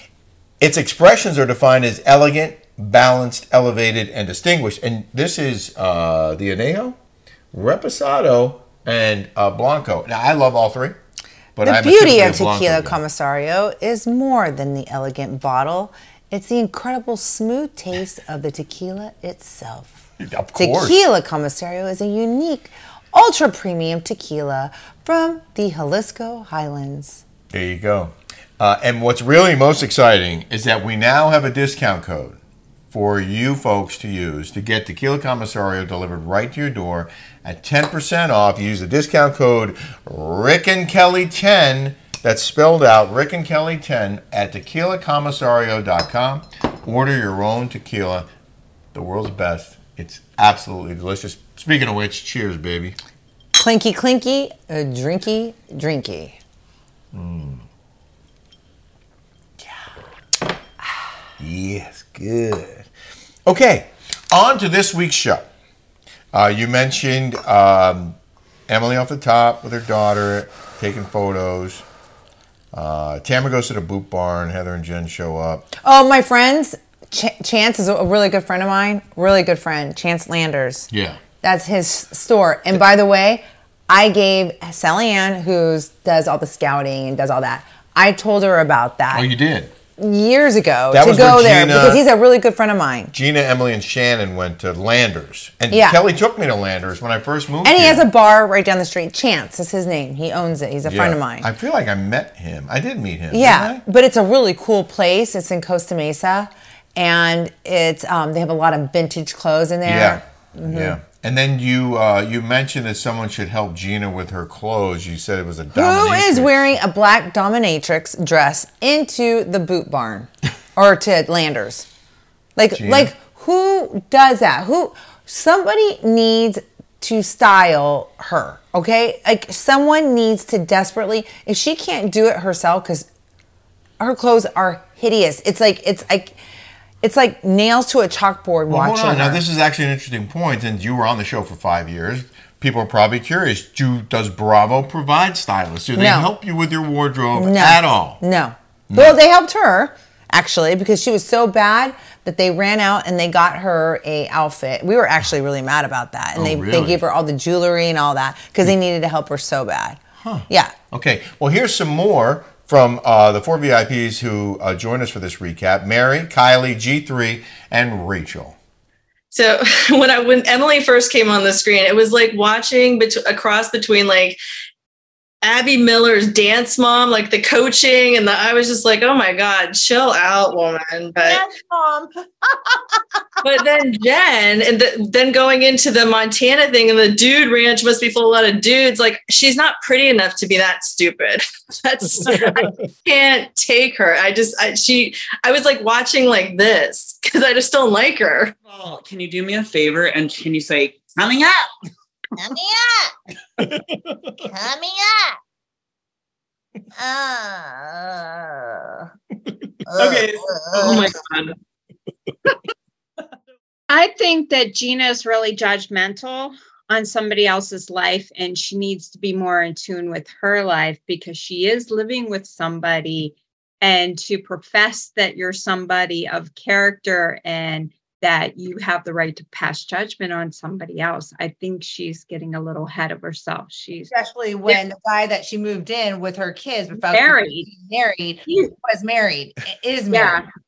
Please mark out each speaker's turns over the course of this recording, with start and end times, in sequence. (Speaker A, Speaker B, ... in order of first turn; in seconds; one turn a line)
Speaker A: 0.6-7.0
Speaker A: 7.5-11.0
Speaker A: 11.6-13.0
Speaker B: 11.6-19.9
Speaker A: 20.2-21.0
Speaker B: 20.6-27.2
Speaker A: 27.5-32.4
Speaker A: 32.9-48.3
Speaker A: 48.9-53.0
Speaker B: 53.5-56.4
Speaker A: 57.1-57.6
Speaker A: 61.4-62.9
Speaker A: 63.5-65.5
Speaker A: 66.3-68.2
Speaker A: 68.7-71.8
Speaker A: 72.7-75.7
Speaker B: 75.8-80.9
Speaker A: 80.9-81.2
Speaker B: 81.4-89.3
Speaker A: 89.1-89.7
Speaker B: 90.0-93.1
Speaker A: 90.9-92.0
Speaker A: 93.1-98.0
Speaker B: 95.7-96.0
Speaker B: 97.6-101.5
Speaker A: 100.8-103.8
Speaker B: 103.3-111.0
Speaker A: 109.8-116.7
Speaker B: 115.7-121.9
Speaker B: 122.6-133.1
Speaker A: 122.7-123.1
Speaker B: 134.0-136.3
Speaker B: 137.0-139.4
Speaker A: 138.7-148.2
Speaker B: 145.9-146.3
Speaker B: 147.3-160.8
Speaker A: 148.9-149.2
Speaker A: 156.3-157.0
Speaker A: 160.2-168.6
Speaker C: 169.3-174.4
Speaker C: 175.4-181.4
Speaker D: 181.2-183.0
Speaker C: 183.4-198.6
Speaker A: 192.2-192.7
Speaker E: 198.7-201.7
Speaker D: 202.4-203.1
Speaker A: 203.6-204.4
Speaker D: 204.4-205.4
Speaker D: 207.0-209.1
Speaker D: 209.9-211.1
Speaker E: 210.0-211.4
Speaker F: 213.9-234.1
Speaker D: 234.1-240.4
Speaker F: 237.0-237.7
Speaker F: 238.5-238.7
Speaker F: 240.1-240.5